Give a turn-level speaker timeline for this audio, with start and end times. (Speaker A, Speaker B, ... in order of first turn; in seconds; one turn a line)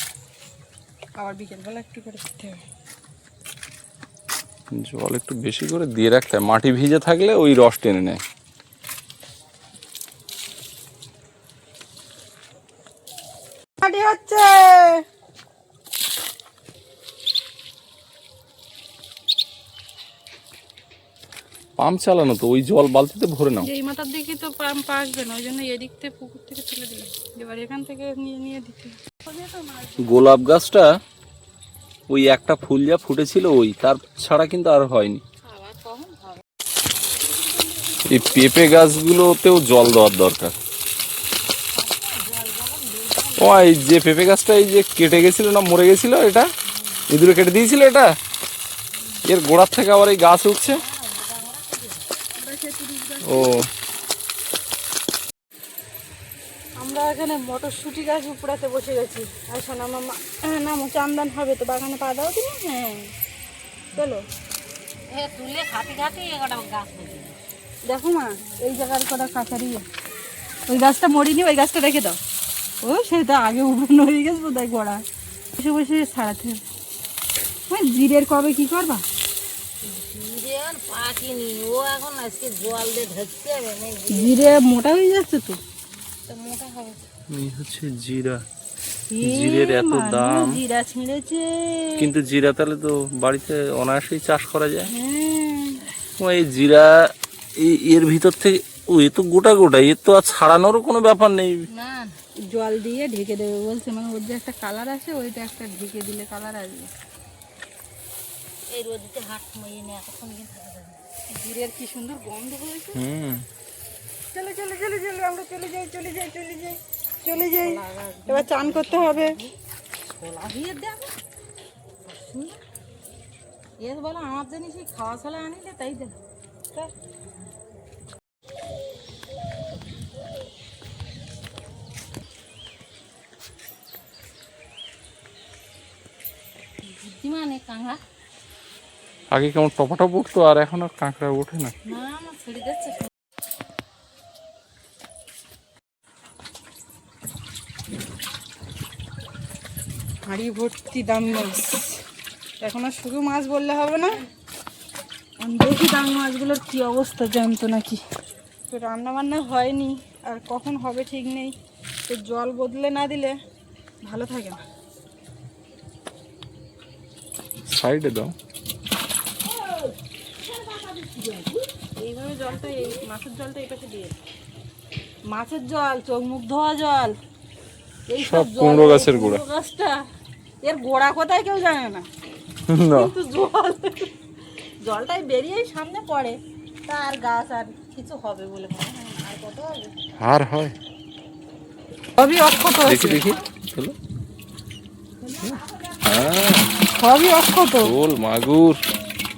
Speaker A: 1.2-2.6
Speaker B: 4.7-8.2
Speaker A: 13.8-15.0
Speaker B: 21.8-23.7
Speaker A: 23.6-29.9
Speaker B: 30.0-30.9
Speaker B: 32.1-35.2
Speaker C: 35.4-36.4
Speaker B: 38.1-40.5
Speaker C: 41.7-43.9
Speaker B: 43.4-46.5
Speaker B: 47.1-48.1
Speaker B: 49.3-50.8
Speaker C: 50.7-52.1
Speaker A: 52.4-53.6
Speaker B: 53.2-53.6
Speaker A: 56.8-63.1
Speaker A: 63.9-64.2
Speaker C: 65.1-67.4
Speaker A: 67.9-69.8
Speaker A: 70.7-72.2
Speaker A: 72.8-75.0
Speaker A: 75.6-76.6
Speaker A: 77.7-79.0
Speaker C: 79.8-84.5
Speaker A: 84.1-85.6
Speaker C: 86.3-87.1
Speaker B: 87.3-88.4
Speaker A: 89.1-92.1
Speaker B: 89.2-90.6
Speaker B: 92.0-94.9
Speaker A: 94.9-95.8
Speaker B: 96.2-96.9
Speaker B: 97.6-101.7
Speaker C: 101.7-102.2
Speaker A: 102.5-106.9
Speaker C: 108.7-111.0
Speaker A: 111.3-113.0
Speaker B: 113.0-113.5
Speaker A: 114.3-119.4
Speaker C: 117.3-119.5
Speaker C: 120.1-121.1
Speaker C: 122.1-122.6
Speaker C: 123.8-126.2
Speaker C: 137.0-138.0
Speaker B: 139.3-141.7
Speaker C: 141.9-143.1
Speaker A: 150.3-152.0
Speaker A: 152.6-154.2
Speaker A: 155.4-158.0
Speaker A: 158.7-161.6
Speaker A: 162.1-163.3
Speaker A: 164.0-164.6
Speaker B: 167.7-168.3
Speaker C: 170.5-171.5
Speaker A: 172.0-174.2
Speaker A: 175.3-177.2
Speaker A: 178.1-180.0
Speaker B: 178.2-179.4
Speaker A: 180.6-182.1
Speaker B: 182.7-183.1
Speaker A: 182.9-184.1
Speaker A: 184.8-189.9
Speaker B: 190.2-190.8
Speaker A: 192.2-193.2
Speaker B: 192.9-194.0
Speaker C: 195.3-195.9
Speaker B: 195.4-196.7
Speaker A: 197.0-197.9
Speaker B: 197.8-198.8